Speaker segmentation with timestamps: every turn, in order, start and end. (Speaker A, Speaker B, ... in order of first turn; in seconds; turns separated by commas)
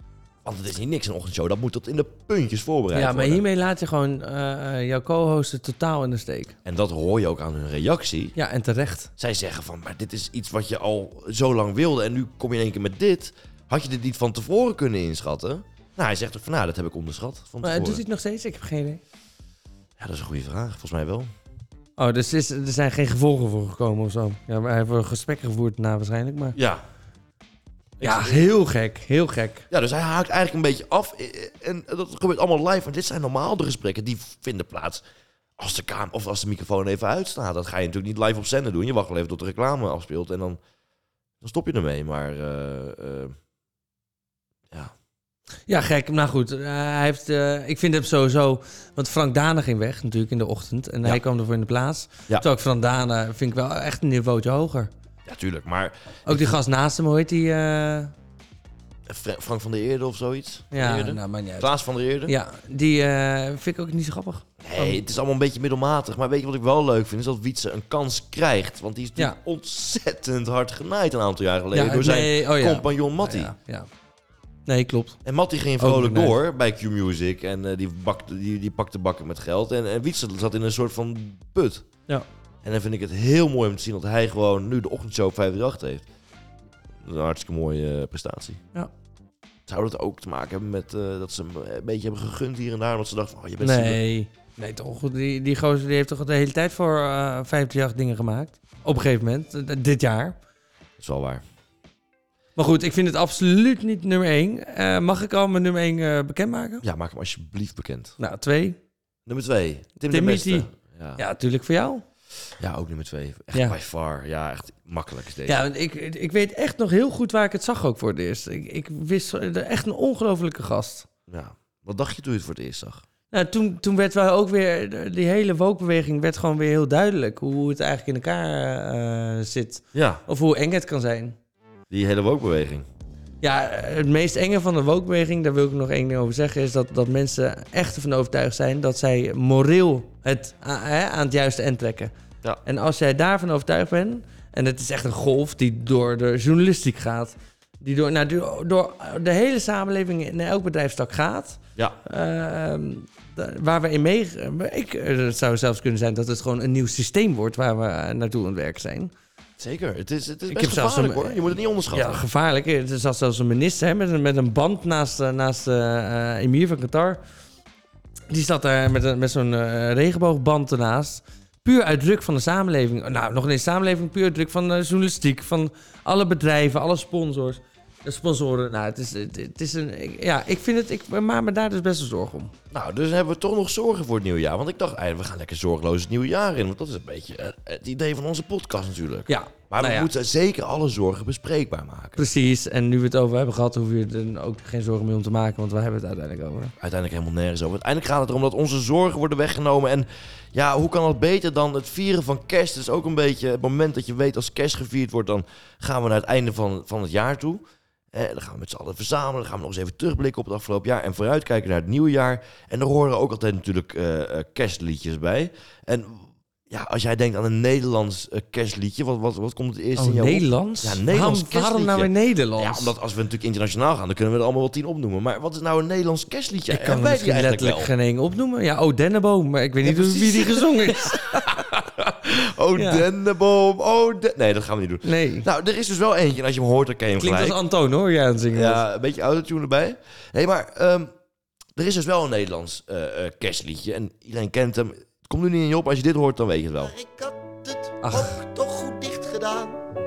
Speaker A: 0.4-3.5, Speaker B: 2.9-6.5, Speaker A: 6.7-8.3, Speaker B: 8.4-9.1, Speaker A: 9.2-18.0, Speaker B: 17.6-19.0, Speaker A: 20.0-21.3, Speaker B: 22.0-26.6, Speaker A: 26.6-26.8, Speaker A: 28.0-28.5, Speaker B: 28.0-29.7, Speaker A: 29.7-35.0, Speaker A: 35.6-40.6, Speaker A: 41.4-43.4, Speaker B: 45.7-54.9, Speaker A: 55.2-56.6, Speaker B: 56.3-58.1, Speaker A: 59.1-62.3, Speaker B: 60.7-61.7, Speaker B: 62.3-65.0, Speaker A: 64.6-73.5, Speaker B: 71.7-73.9, Speaker B: 74.7-75.2, Speaker A: 75.2-81.8, Speaker B: 75.8-76.3, Speaker A: 82.6-86.0, Speaker A: 87.0-88.6, Speaker A: 89.7-94.0, Speaker B: 93.6-100.4, Speaker A: 101.0-101.4, Speaker B: 102.6-106.8, Speaker A: 106.8-108.2, Speaker B: 108.2-108.8, Speaker A: 109.3-111.2, Speaker B: 110.1-110.7, Speaker B: 111.2-112.0, Speaker A: 112.6-115.6, Speaker B: 115.5-121.1, Speaker A: 121.3-123.0, Speaker B: 123.3-131.4, Speaker A: 129.9-130.2, Speaker A: 131.9-132.9, Speaker B: 133.4-142.1, Speaker B: 142.7-159.1, Speaker A: 159.6-162.2, Speaker B: 160.5-167.2, Speaker B: 168.3-182.5, Speaker A: 182.7-192.2, Speaker B: 189.3-190.1, Speaker B: 192.2-196.7, Speaker A: 196.8-227.9, Speaker B: 220.0-222.9, Speaker B: 226.7-231.5, Speaker A: 229.8-237.6, Speaker B: 232.8-233.0, Speaker B: 235.1-235.5, Speaker B: 237.2-238.8, Speaker A: 238.5-241.1, Speaker A: 241.8-246.9, Speaker C: 246.8-249.8, Speaker B: 248.0-248.4